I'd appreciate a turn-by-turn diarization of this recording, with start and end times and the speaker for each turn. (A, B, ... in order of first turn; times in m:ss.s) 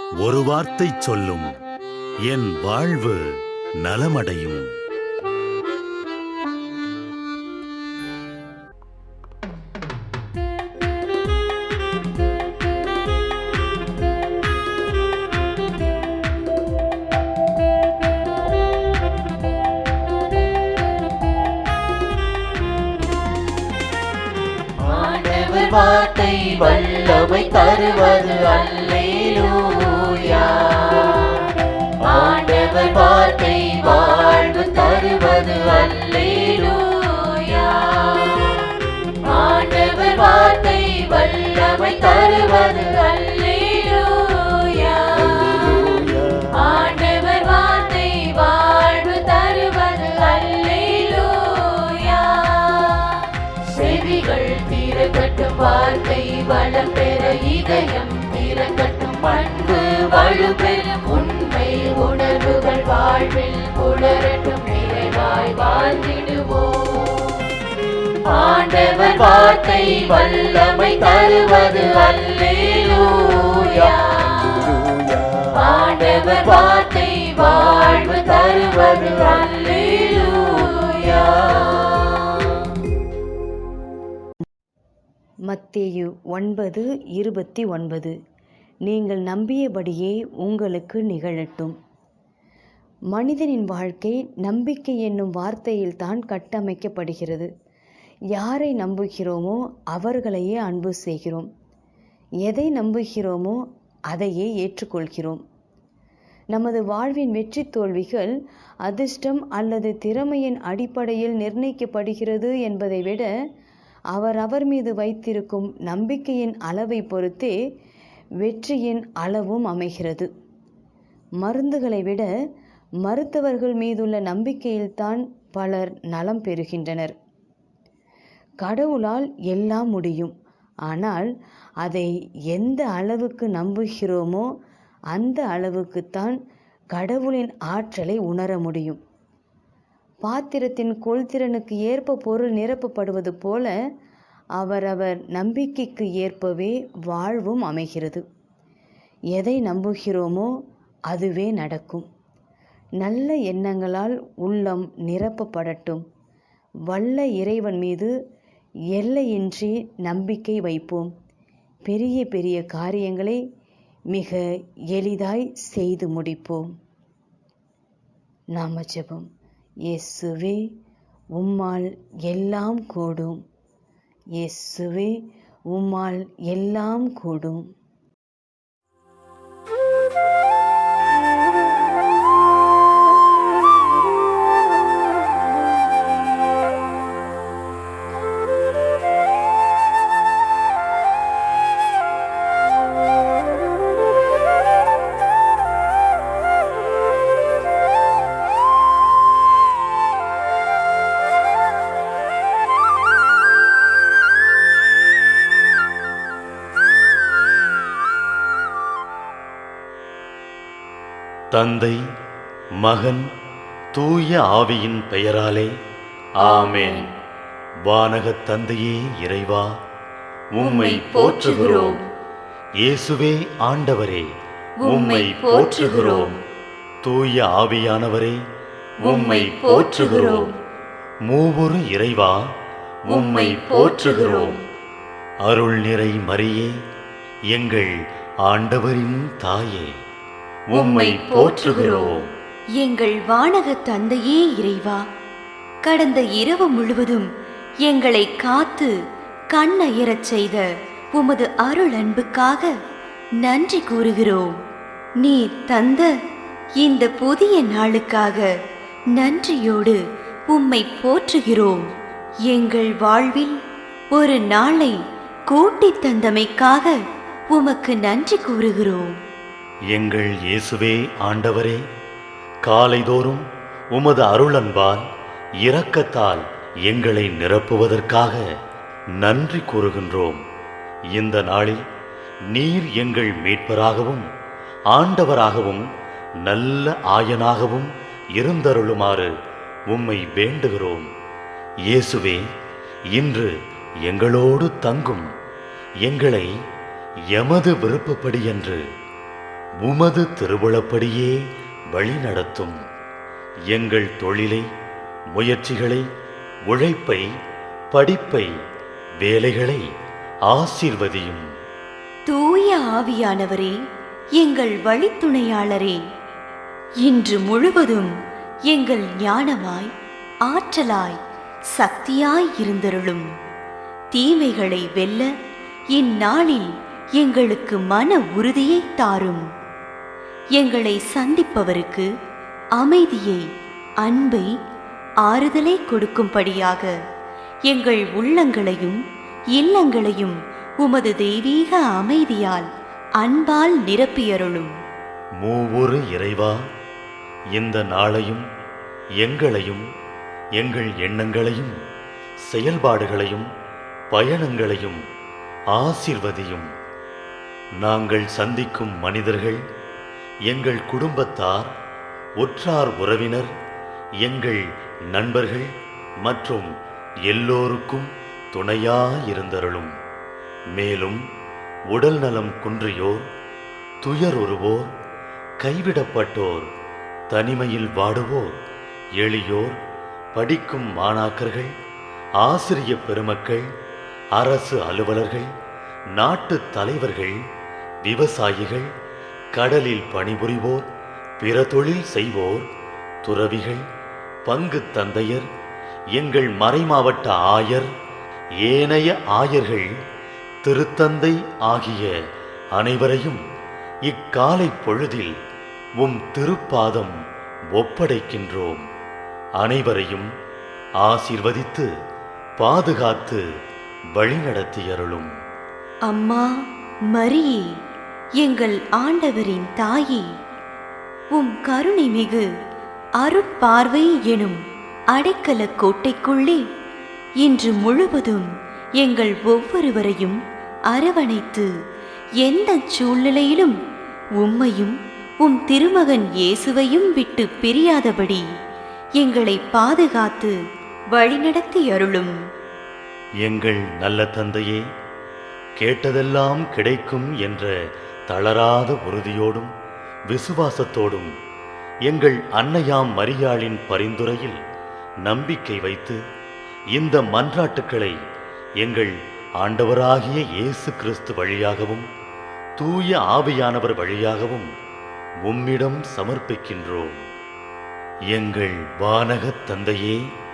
0:00.2-0:01.5 A
0:02.3-0:03.2 A
0:03.8-0:04.7 A
0:24.8-0:31.5 B
0:32.0-1:07.4 B
1:08.3-1:14.9 B
1:15.5-1:22.6 B
1:25.5-1:28.2 C
1:28.9-1:31.8 C
1:33.1-1:37.5 C
1:38.4-1:41.5 C
1:42.4-1:43.6 C
1:44.1-1:45.4 C
1:46.5-1:48.3 C
1:48.9-1:53.3 C
1:54.1-1:57.6 C
1:58.4-2:00.3 C
2:01.4-2:02.3 C
2:03.1-2:07.2 C
2:08.6-2:10.3 C
2:10.9-2:11.3 C
2:11.8-2:14.5 C
2:15.1-2:16.4 C
2:17.0-2:19.0 C
2:20.3-2:23.7 C
2:24.6-2:28.2 C
2:29.3-2:30.5 C
2:31.1-2:32.1 C
2:33.0-2:36.0 C
2:36.9-2:38.1 C
2:39.0-2:41.1 C
2:41.9-2:43.4 C
2:44.1-2:44.4 C
2:44.9-2:46.7 C
2:48.6-2:49.3 C
2:49.9-2:50.6 C
2:51.4-2:53.4 C
2:54.4-2:55.1 C
2:55.7-2:57.6 C
3:31.5-3:32.0 A
3:32.8-3:33.3 A
3:34.0-3:35.7 A
3:36.4-3:37.1 A
3:36.4-3:37.1 D
3:37.9-3:39.7 A
3:40.5-3:42.0 A
3:40.6-3:42.0 D
3:42.8-3:44.3 A
3:44.8-3:46.4 D
3:44.8-3:46.4 A
3:47.0-3:48.4 A
3:49.0-3:50.5 A
3:49.0-3:50.5 D
3:51.3-3:52.4 A
3:53.1-3:54.6 A
3:53.1-3:54.6 D
3:55.4-3:56.7 A
3:57.5-3:57.9 A
3:58.5-3:59.9 A
4:00.7-4:02.3 A
4:00.8-4:02.2 D
4:02.8-4:05.0 D
4:05.8-4:07.3 D
4:07.9-4:08.9 D
4:09.5-4:12.7 D
4:13.4-4:14.6 D
4:15.2-4:16.1 D
4:16.8-4:18.5 D
4:19.2-4:21.9 D
4:22.5-4:23.6 D
4:24.1-4:25.0 D
4:25.5-4:26.9 D
4:27.5-4:29.1 D
4:29.9-4:31.8 A
4:32.7-4:35.0 A
4:35.6-4:38.4 A
4:39.2-4:40.4 A
4:41.1-4:41.8 A
4:42.5-4:44.3 A
4:44.9-4:45.9 A
4:46.4-4:49.3 A
4:49.9-4:51.1 A
4:51.9-4:52.4 A
4:53.1-4:53.5 A
4:54.1-4:55.3 A
4:56.1-4:56.5 A
4:57.3-4:58.8 A
4:59.8-5:01.4 A
5:01.9-5:02.8 A
5:03.7-5:04.7 A
5:05.4-5:06.0 A
5:06.7-5:07.2 A
5:07.9-5:08.5 A
5:09.2-5:09.8 A
5:10.5-5:11.4 A
5:12.3-5:13.8 D
5:14.4-5:16.0 D
5:17.0-5:18.1 D
5:18.7-5:19.9 D
5:20.5-5:21.2 D
5:21.7-5:23.3 D
5:24.1-5:25.3 D
5:26.0-5:29.4 D
5:30.6-5:32.1 D
5:32.8-5:33.4 D
5:34.0-5:34.5 D
5:35.3-5:36.9 D
5:37.7-5:39.0 D
5:39.6-5:42.7 D
5:43.2-5:44.7 D
5:45.4-5:46.6 A
5:47.6-5:48.4 A
5:49.2-5:49.8 A
5:50.6-5:51.8 A
5:52.5-5:53.5 A
5:54.1-5:55.0 A
5:55.7-5:56.7 A
5:57.8-5:59.6 A
6:00.5-6:01.7 A
6:02.4-6:03.5 A
6:04.2-6:05.7 A
6:06.2-6:06.7 A
6:07.3-6:09.9 A
6:10.8-6:11.2 A
6:11.9-6:13.3 A
6:14.0-6:14.9 A
6:15.6-6:16.7 A
6:17.3-6:18.6 A
6:19.2-6:19.8 A
6:20.4-6:21.7 A
6:22.4-6:23.7 A
6:24.4-6:25.5 A
6:26.2-6:27.4 A
6:28.0-6:28.9 A
6:29.6-6:30.8 A
6:31.4-6:32.7 A
6:33.2-6:33.8 A
6:34.5-6:35.5 A
6:36.2-6:37.9 A
6:38.6-6:39.9 A
6:40.6-6:42.1 A
6:42.8-6:43.4 A
6:44.1-6:45.4 A
6:46.0-6:47.2 A
6:47.7-6:48.8 A
6:49.6-6:50.3 A
6:51.0-6:51.9 A
6:52.6-6:53.4 A
6:54.2-6:55.3 A
6:56.1-6:56.5 D
6:57.1-6:57.6 D
6:58.4-7:00.3 D
7:01.4-7:02.4 D
7:03.2-7:04.6 D
7:05.2-7:06.6 D
7:07.4-7:08.5 D
7:09.0-7:10.4 D
7:10.9-7:11.7 D
7:12.4-7:13.8 D
7:14.4-7:18.4 D
7:19.2-7:20.6 D
7:21.1-7:22.3 D
7:23.4-7:24.8 A
7:25.8-7:27.7 A
7:28.3-7:29.7 A
7:30.3-7:31.3 A
7:32.1-7:34.6 A
7:35.2-7:36.2 A
7:37.0-7:38.2 A
7:38.8-7:42.1 A
7:42.8-7:44.7 A
7:45.4-7:47.2 A
7:48.3-7:50.2 A